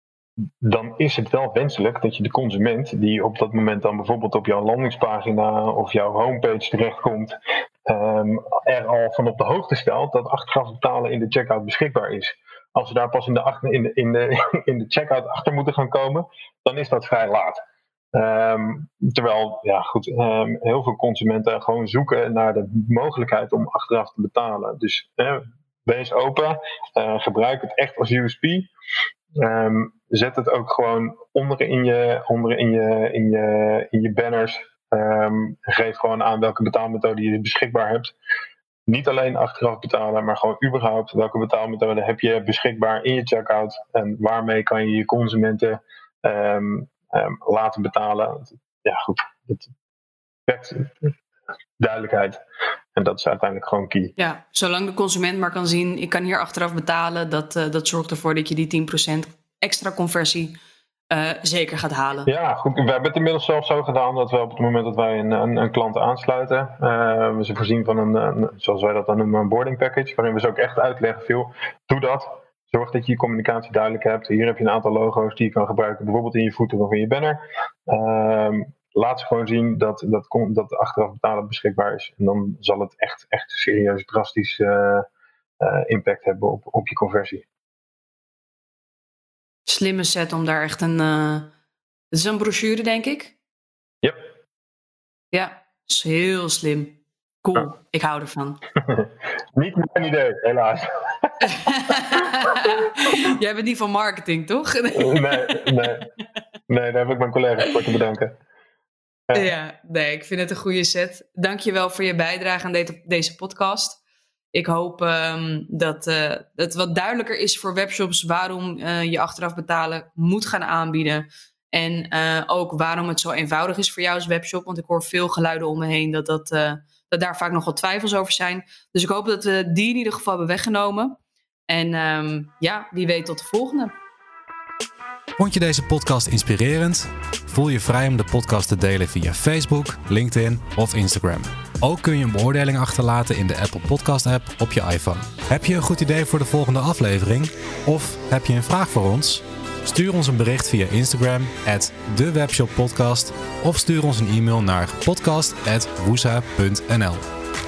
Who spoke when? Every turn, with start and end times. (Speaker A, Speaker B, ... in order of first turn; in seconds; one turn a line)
Speaker A: 0.6-17.6
Speaker A: 18.1-28.7
Speaker A: 29.4-38.1
Speaker A: 38.9-49.7
Speaker A: 50.5-51.1
Speaker A: 51.8-52.4
Speaker A: 53.0-54.1
Speaker B: 54.2-60.6
Speaker B: 61.1-62.3
Speaker A: 62.3-85.1
Speaker A: 85.6-87.5
Speaker B: 89.7-91.5
Speaker B: 92.1-93.3
Speaker B: 95.3-98.6
Speaker A: 98.8-103.2
Speaker B: 101.4-105.9
Speaker A: 104.9-106.1
Speaker A: 106.7-108.3
Speaker B: 109.3-114.0
Speaker B: 114.5-131.2
Speaker B: 131.7-133.9
Speaker C: 135.4-157.2